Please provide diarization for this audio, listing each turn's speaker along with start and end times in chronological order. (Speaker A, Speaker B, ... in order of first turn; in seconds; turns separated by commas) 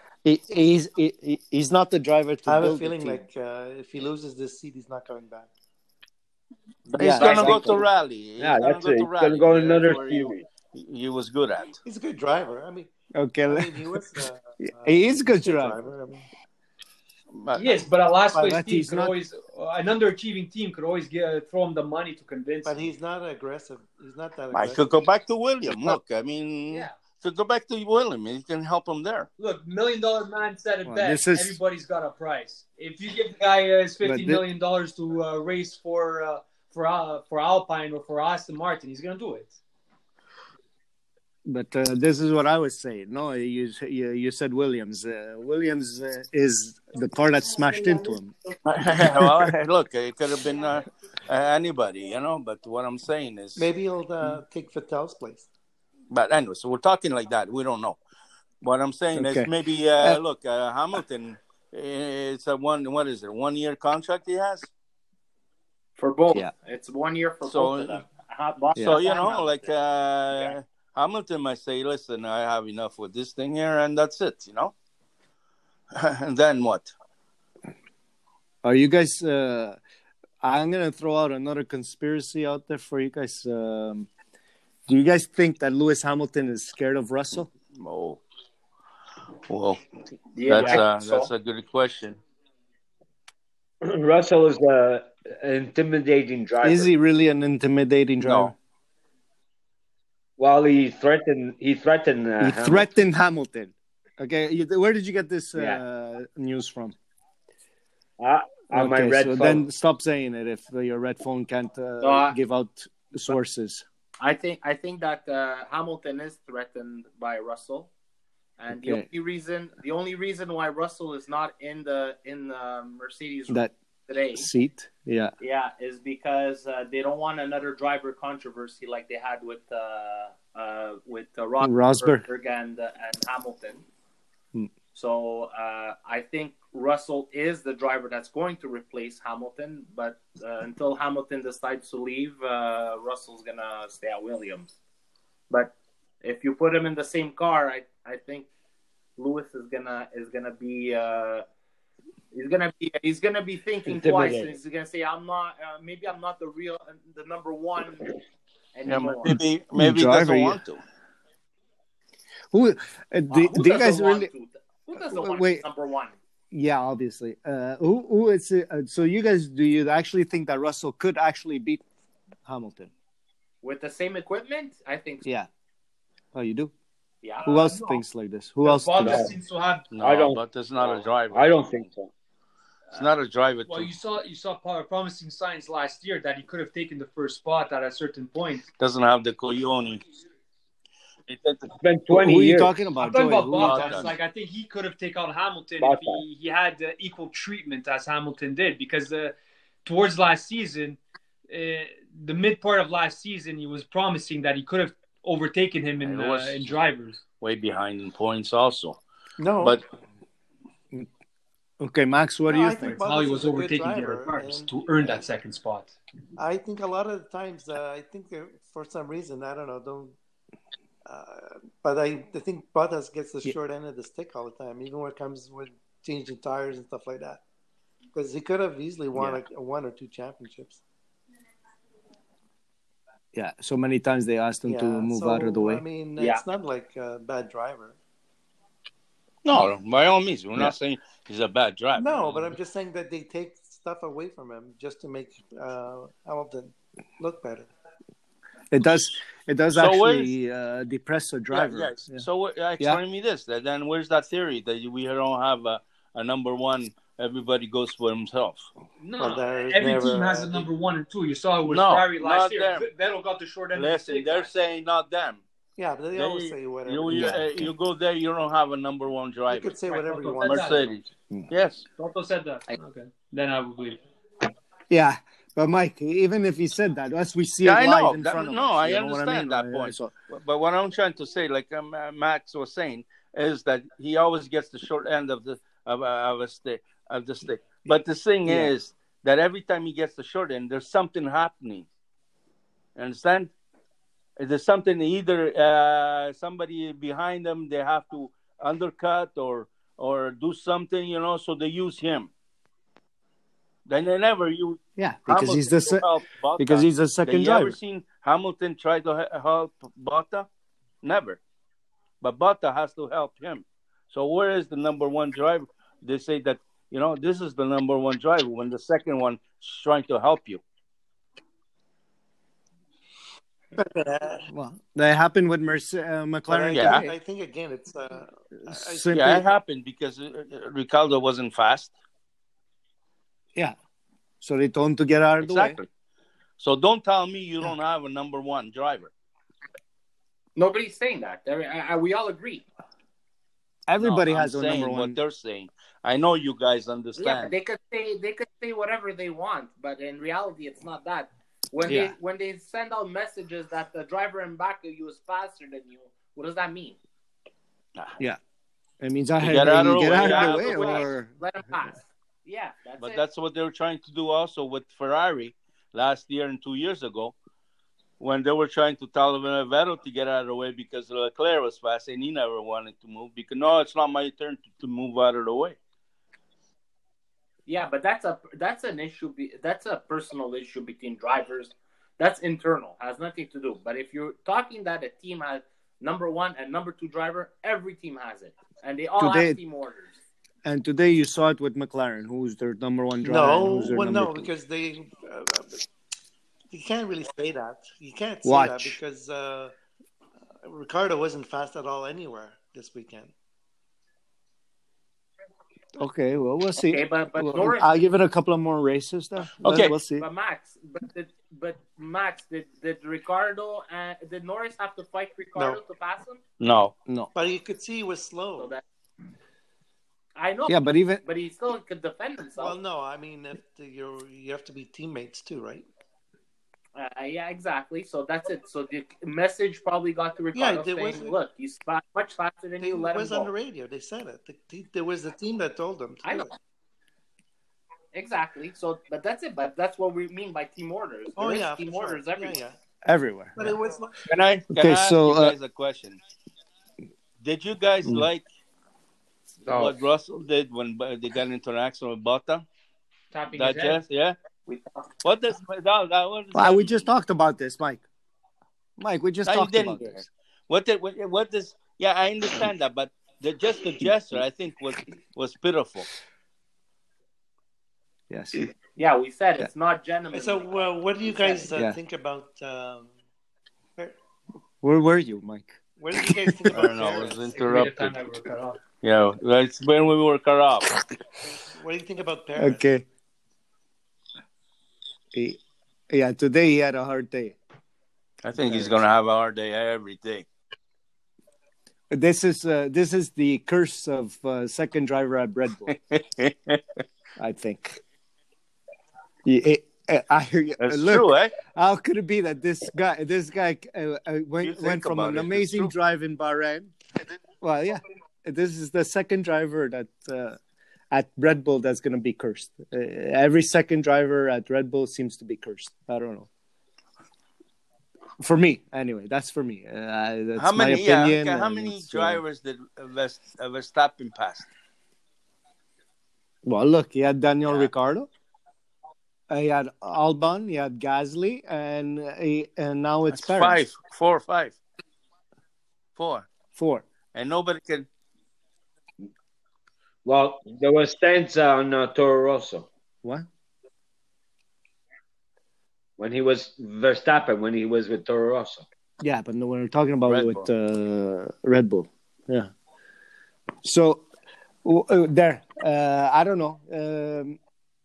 Speaker A: 0.2-3.2, Speaker B: 2.5-5.5, Speaker A: 6.9-7.8, Speaker C: 6.9-11.8, Speaker D: 7.1-7.7, Speaker D: 8.4-10.4, Speaker B: 11.8-12.9, Speaker A: 13.1-14.0, Speaker B: 13.5-16.2, Speaker A: 14.7-15.8, Speaker C: 17.3-17.8, Speaker E: 17.5-22.9, Speaker A: 18.3-19.1, Speaker B: 22.6-24.9, Speaker C: 24.5-29.3, Speaker A: 25.7-26.0, Speaker E: 29.4-39.6, Speaker A: 30.9-31.6, Speaker A: 34.0-34.4, Speaker A: 41.5-48.3, Speaker C: 48.6-53.7, Speaker A: 49.0-49.5, Speaker B: 53.6-55.5, Speaker C: 56.1-58.0, Speaker C: 58.6-64.7, Speaker A: 59.1-60.2, Speaker F: 66.0-69.7, Speaker C: 67.5-68.0, Speaker C: 68.8-74.7, Speaker C: 75.9-76.9, Speaker A: 78.6-79.8, Speaker A: 80.4-84.1, Speaker A: 84.9-87.5, Speaker C: 87.7-88.2, Speaker C: 89.5-89.8, Speaker F: 90.3-91.3, Speaker C: 90.5-92.2, Speaker D: 93.8-96.9, Speaker A: 96.6-98.5, Speaker C: 98.2-98.5, Speaker D: 100.4-102.8, Speaker A: 102.4-107.0, Speaker D: 108.2-109.6, Speaker A: 108.7-113.8, Speaker F: 112.0-112.4, Speaker F: 114.2-117.9, Speaker F: 118.6-124.5, Speaker A: 118.7-119.1, Speaker A: 124.3-125.3, Speaker F: 125.4-133.8, Speaker A: 131.6-132.2, Speaker F: 134.9-144.7, Speaker F: 145.5-148.5, Speaker F: 149.2-151.4, Speaker F: 152.3-158.1, Speaker D: 153.8-154.5, Speaker F: 158.7-159.4, Speaker C: 158.8-160.8, Speaker A: 159.8-160.6, Speaker A: 162.5-164.3, Speaker F: 163.3-166.1, Speaker A: 165.0-165.6, Speaker A: 166.5-171.8, Speaker A: 172.4-172.9, Speaker F: 173.6-175.2, Speaker A: 176.3-176.7, Speaker F: 177.2-177.5, Speaker E: 177.4-178.0, Speaker A: 177.4-179.3, Speaker E: 178.6-179.8, Speaker D: 179.0-179.3, Speaker C: 179.9-181.8, Speaker D: 180.0-182.1, Speaker C: 182.9-183.9, Speaker E: 183.7-188.7, Speaker C: 188.8-190.0, Speaker C: 191.3-191.7, Speaker D: 191.7-192.7, Speaker A: 192.1-194.1, Speaker E: 193.0-199.3, Speaker C: 193.6-194.1, Speaker D: 195.8-196.2, Speaker E: 199.8-207.2, Speaker C: 206.0-206.7, Speaker C: 207.4-209.0, Speaker B: 209.4-209.8, Speaker A: 211.8-213.0, Speaker B: 212.5-215.2, Speaker E: 212.8-215.9, Speaker B: 216.4-220.2, Speaker B: 221.0-227.4, Speaker B: 228.1-230.8, Speaker A: 229.1-229.4, Speaker A: 233.3-235.8, Speaker B: 234.7-238.0, Speaker C: 239.4-242.5, Speaker B: 242.0-247.7, Speaker A: 248.7-252.2, Speaker C: 249.7-250.3, Speaker C: 251.5-258.7, Speaker E: 259.0-264.5, Speaker B: 259.2-260.7, Speaker C: 261.6-262.9, Speaker C: 263.7-265.4, Speaker B: 265.8-267.4, Speaker C: 266.1-269.8, Speaker A: 267.1-267.7, Speaker B: 269.5-271.0, Speaker E: 269.9-270.9, Speaker C: 270.4-271.8, Speaker E: 272.0-274.0, Speaker A: 274.9-280.1, Speaker C: 277.6-291.9, Speaker A: 288.4-288.7, Speaker C: 292.9-293.5, Speaker C: 294.4-302.3, Speaker C: 303.9-310.5, Speaker A: 305.0-306.0, Speaker A: 306.6-307.8, Speaker C: 311.0-311.4, Speaker C: 312.2-320.6, Speaker B: 323.8-324.5, Speaker A: 324.5-327.1, Speaker B: 326.5-329.4, Speaker C: 326.7-327.1, Speaker A: 328.6-329.4, Speaker C: 329.1-331.9, Speaker A: 334.4-335.8, Speaker C: 335.4-335.9, Speaker C: 336.6-339.1, Speaker F: 340.6-342.6, Speaker A: 343.9-345.2, Speaker C: 344.0-347.5, Speaker F: 347.2-357.0, Speaker A: 351.8-352.1, Speaker A: 359.0-361.3, Speaker C: 359.4-361.1, Speaker F: 360.1-363.2, Speaker C: 363.0-367.3, Speaker C: 368.2-375.8, Speaker F: 377.7-390.1, Speaker A: 389.2-389.6, Speaker A: 390.6-394.5, Speaker B: 393.2-395.9, Speaker B: 396.7-399.7, Speaker A: 398.4-399.0, Speaker B: 400.6-403.3, Speaker A: 406.0-410.3, Speaker F: 406.8-407.9, Speaker C: 409.6-409.9, Speaker F: 410.2-416.4, Speaker C: 416.6-416.9, Speaker A: 417.1-417.3, Speaker B: 417.3-418.7, Speaker F: 420.4-422.8, Speaker A: 420.7-421.2, Speaker B: 422.6-425.9, Speaker F: 426.9-433.5, Speaker B: 430.5-431.4, Speaker B: 432.8-436.5, Speaker F: 436.2-436.5, Speaker F: 438.1-442.6, Speaker B: 441.4-442.8, Speaker A: 443.0-443.7, Speaker B: 443.6-444.2, Speaker C: 444.2-446.2, Speaker A: 444.7-445.5, Speaker C: 447.4-448.4, Speaker C: 449.6-452.6, Speaker E: 453.3-453.9, Speaker C: 453.5-454.4, Speaker F: 453.6-453.9, Speaker C: 455.2-457.1, Speaker A: 456.5-458.0, Speaker A: 459.0-460.2, Speaker C: 459.4-466.1, Speaker A: 468.3-468.6, Speaker F: 468.9-471.7, Speaker B: 470.3-473.1, Speaker A: 474.8-476.8, Speaker B: 476.0-477.6, Speaker C: 476.7-478.1, Speaker E: 477.5-478.8, Speaker C: 479.0-480.9, Speaker B: 481.4-482.8, Speaker A: 482.6-483.0, Speaker A: 485.3-487.6, Speaker C: 488.4-490.4, Speaker A: 488.6-489.0, Speaker A: 492.1-495.9, Speaker C: 495.9-496.8, Speaker A: 497.4-498.0, Speaker A: 499.4-506.9, Speaker C: 500.8-501.5, Speaker C: 504.6-505.9, Speaker A: 507.6-510.6, Speaker A: 511.1-516.5, Speaker A: 518.4-522.4, Speaker C: 520.5-524.7, Speaker A: 526.6-528.3, Speaker A: 529.5-533.8, Speaker C: 533.3-534.8, Speaker C: 536.2-536.5, Speaker A: 536.7-537.0, Speaker C: 537.3-538.1, Speaker D: 540.2-542.9, Speaker D: 546.2-548.8, Speaker A: 549.2-552.7, Speaker C: 550.2-550.7, Speaker A: 553.8-554.2, Speaker A: 554.8-557.6